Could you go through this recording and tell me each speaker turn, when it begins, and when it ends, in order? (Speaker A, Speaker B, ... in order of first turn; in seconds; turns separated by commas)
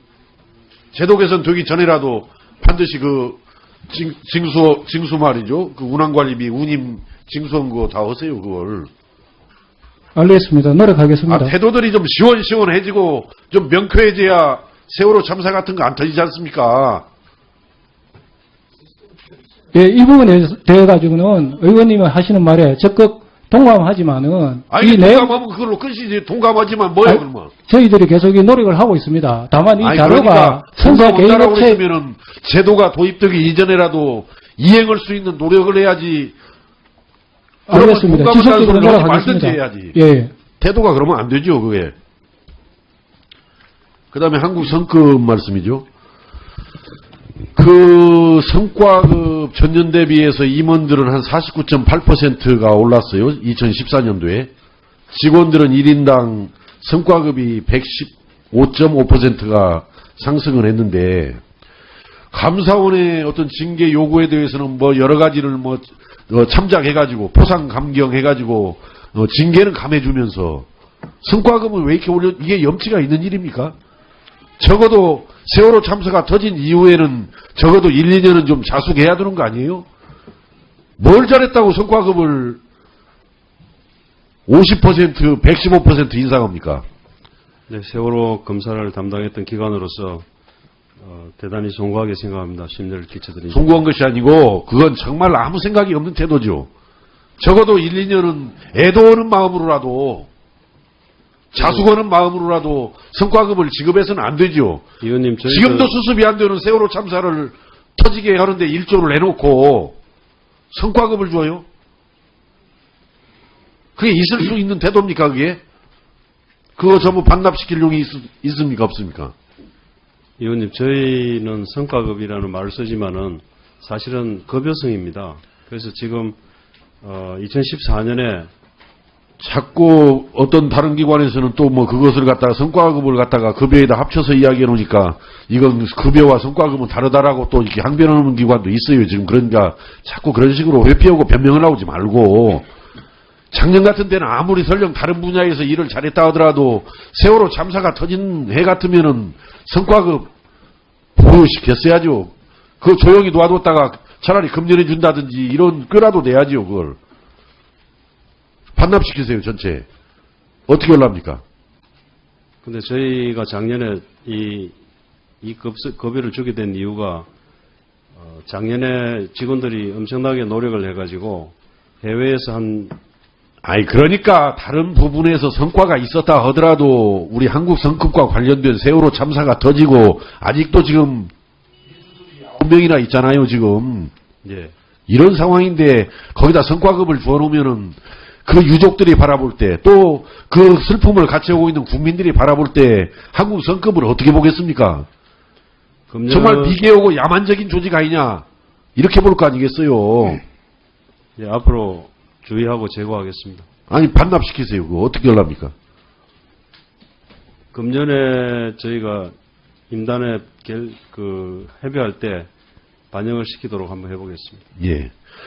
Speaker A: 0.9-8.9, Speaker B: 10.2-11.5, Speaker A: 11.3-17.1, Speaker B: 19.7-25.3, Speaker A: 24.7-27.5, Speaker B: 27.0-31.8, Speaker A: 29.8-36.3, Speaker B: 37.7-40.3, Speaker A: 37.7-40.0, Speaker A: 40.6-41.9, Speaker A: 44.1-45.8, Speaker A: 47.5-54.5, Speaker A: 55.1-61.4, Speaker A: 62.3-70.7, Speaker A: 71.2-73.7, Speaker A: 74.6-79.8, Speaker A: 81.0-82.6, Speaker A: 84.5-86.8, Speaker C: 87.7-90.2, Speaker C: 91.0-93.8, Speaker A: 93.5-96.7, Speaker A: 97.4-100.3, Speaker A: 101.5-104.8, Speaker C: 101.6-101.9, Speaker C: 105.0-105.9, Speaker A: 105.4-110.0, Speaker A: 110.7-111.6, Speaker A: 114.0-115.6, Speaker A: 116.8-119.3, Speaker C: 120.4-126.4, Speaker C: 127.0-128.5, Speaker A: 129.4-142.7, Speaker A: 143.5-150.3, Speaker A: 151.2-157.0, Speaker A: 158.8-159.8, Speaker A: 160.7-161.4, Speaker C: 162.6-164.7, Speaker C: 165.4-167.3, Speaker C: 168.2-173.0, Speaker A: 173.6-181.3, Speaker A: 182.4-184.1, Speaker C: 184.4-184.7, Speaker A: 185.1-195.1, Speaker C: 196.1-196.8, Speaker A: 196.3-198.4, Speaker A: 198.9-200.4, Speaker C: 201.4-203.7, Speaker A: 203.9-205.7, Speaker C: 207.7-209.3, Speaker C: 209.9-212.5, Speaker C: 213.1-214.6, Speaker A: 214.8-215.1